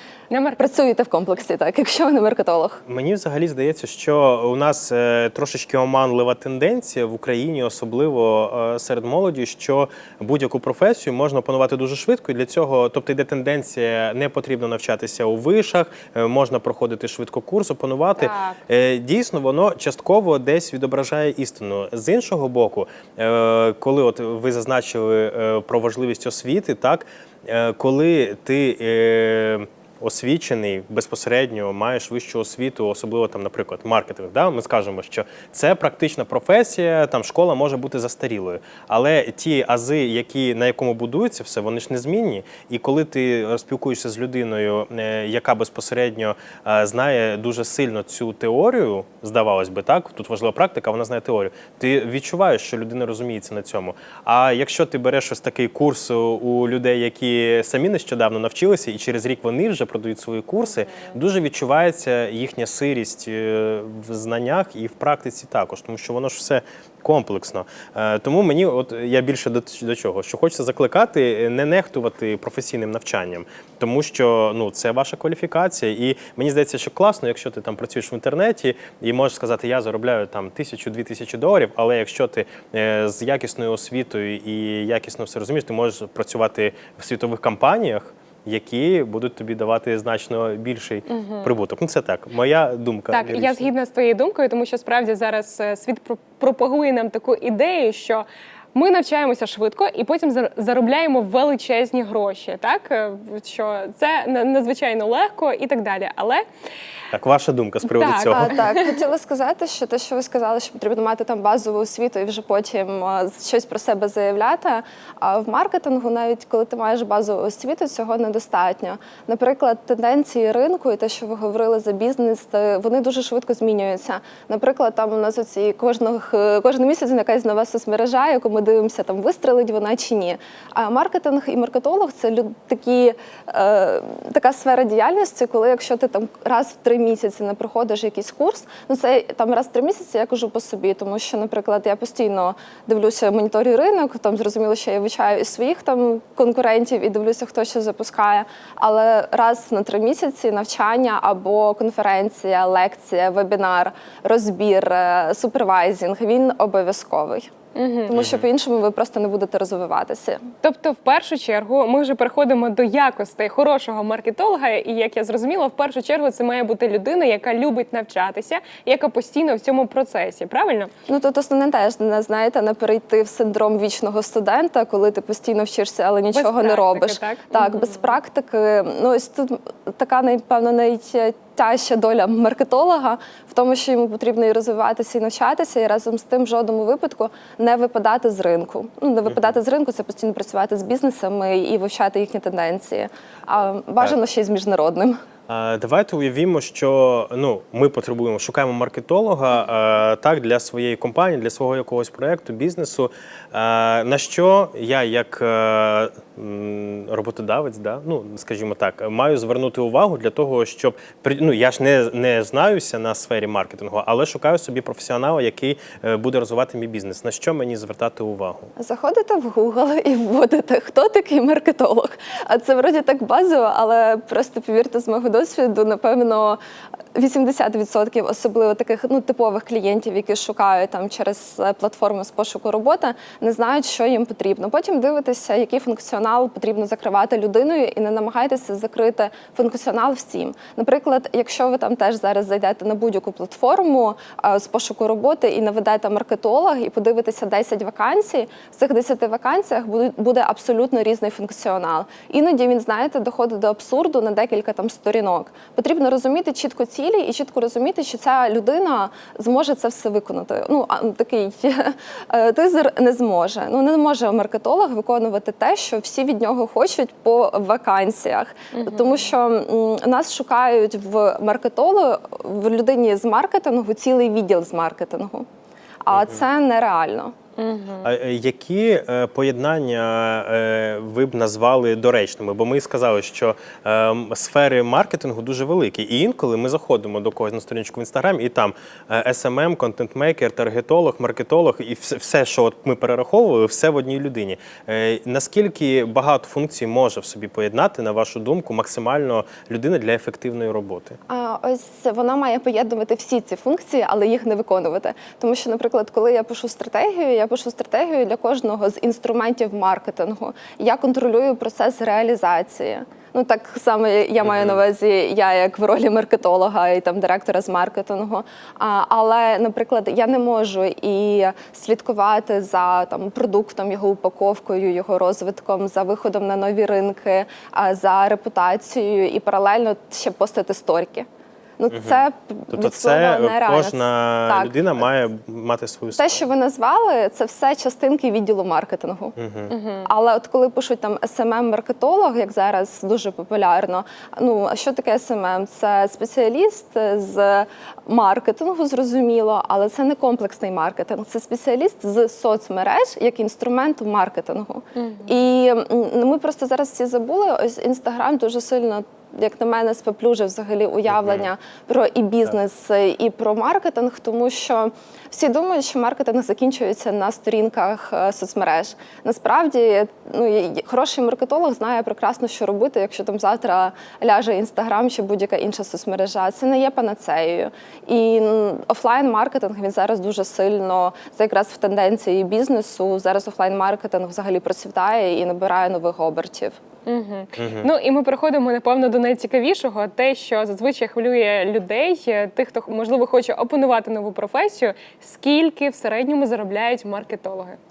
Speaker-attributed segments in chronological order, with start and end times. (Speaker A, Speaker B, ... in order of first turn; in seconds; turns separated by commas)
Speaker A: 0.3-0.7, Speaker B: 0.6-2.8, Speaker C: 2.9-93.7, Speaker A: 91.1-91.5, Speaker A: 93.1-106.4, Speaker C: 107.1-108.5, Speaker A: 107.8-109.0, Speaker B: 108.3-157.5, Speaker A: 157.7-158.1, Speaker B: 158.1-160.4, Speaker C: 158.1-158.4, Speaker A: 160.6-170.9, Speaker B: 171.1-195.2, Speaker A: 176.3-178.1, Speaker C: 195.5-218.7, Speaker B: 218.8-226.6, Speaker B: 227.1-275.4, Speaker A: 268.7-269.2, Speaker B: 276.0-277.3, Speaker C: 276.1-276.4, Speaker A: 277.6-278.1, Speaker C: 278.0-301.2, Speaker B: 301.3-331.2, Speaker C: 314.4-314.8, Speaker B: 331.8-335.0, Speaker C: 331.9-336.4, Speaker B: 336.1-339.4, Speaker C: 339.4-339.7, Speaker A: 339.7-340.1, Speaker B: 340.0-386.8, Speaker A: 354.9-355.3, Speaker C: 361.1-361.5, Speaker A: 387.1-397.8, Speaker C: 387.6-387.9